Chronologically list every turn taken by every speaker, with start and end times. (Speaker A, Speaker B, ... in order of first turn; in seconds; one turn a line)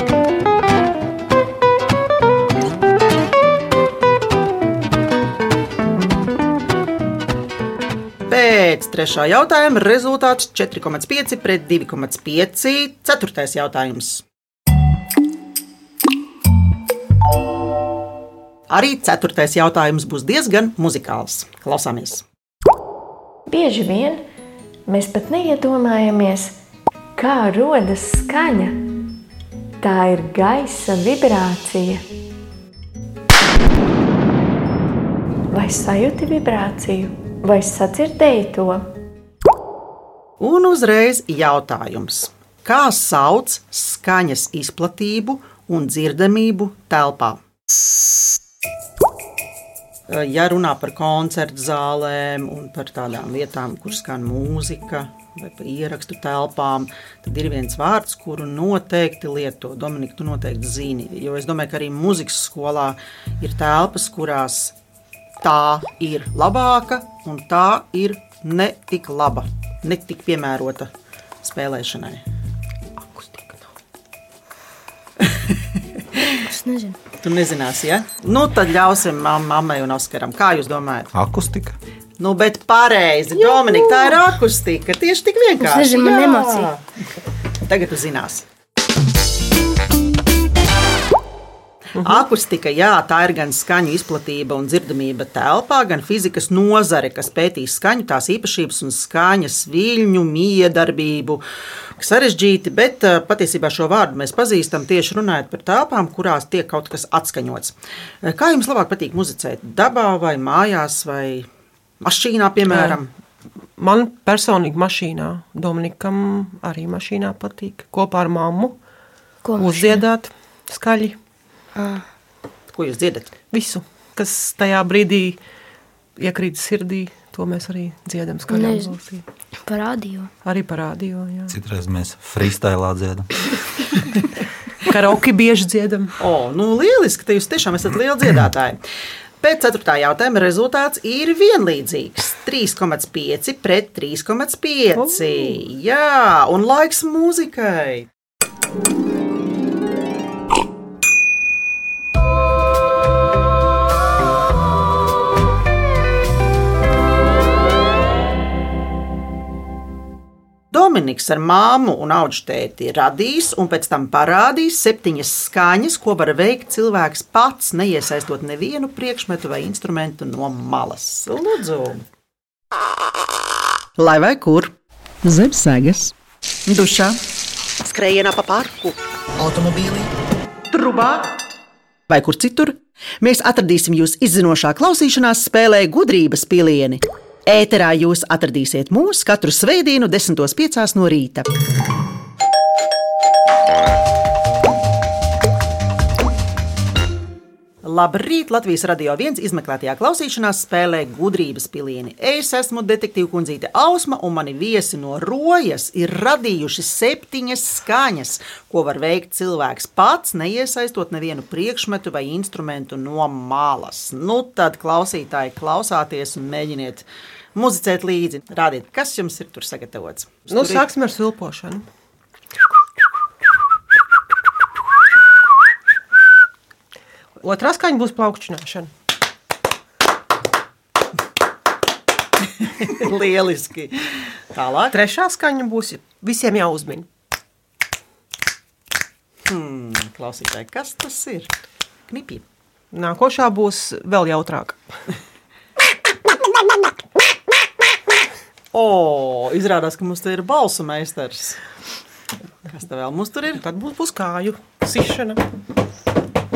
Speaker A: 8.3-14.2
Speaker A: 18.7-22.2
Speaker B: 23.5-24.2
Speaker B: 24.9-26.6
Speaker B: 27.1-28.8
Speaker B: 29.8-32.0
Speaker B: 35.5-38.9
Speaker A: 40.4-47.4
Speaker A: 50.1-64.7
Speaker A: 65.4-70.9
Speaker A: 71.4-72.2
Speaker C: 73.0-73.7
Speaker A: 75.2-75.6
Speaker D: 76.3-77.0
Speaker A: 77.2-81.1
Speaker E: 81.1-81.8
Speaker A: 82.2-86.8
Speaker D: 85.6-86.7
Speaker A: 87.7-88.4
Speaker C: 92.0-92.2
Speaker A: 92.0-101.4
Speaker A: 102.0-111.5
Speaker A: 112.0-113.1
Speaker C: 112.7-113.0
Speaker C: 113.8-118.8
Speaker D: 119.4-120.0
Speaker C: 119.6-121.2
Speaker D: 121.8-122.0
Speaker A: 122.7-123.3
Speaker C: 123.5-125.4
Speaker C: 126.2-129.2
Speaker D: 128.5-128.9
Speaker D: 129.7-130.3
Speaker C: 130.4-131.5
Speaker E: 131.5-133.3
Speaker C: 134.8-136.1
Speaker A: 136.2-138.8
Speaker A: 139.4-148.1
Speaker C: 145.0-145.6
Speaker A: 160.7-172.0
Speaker A: 174.0-174.7
Speaker A: 175.2-176.1
Speaker A: 176.7-177.2
Speaker A: 177.8-180.1
Speaker A: 180.7-181.3
Speaker A: 182.1-191.5
Speaker A: 197.8-220.8
Speaker C: 220.5-221.8
Speaker C: 227.4-228.9
Speaker A: 232.8-234.9
Speaker C: 234.9-237.1
Speaker A: 239.5-241.5
Speaker A: 242.1-242.4
Speaker C: 242.9-244.8
Speaker A: 248.7-251.6
Speaker A: 252.7-253.6
Speaker C: 253.5-255.4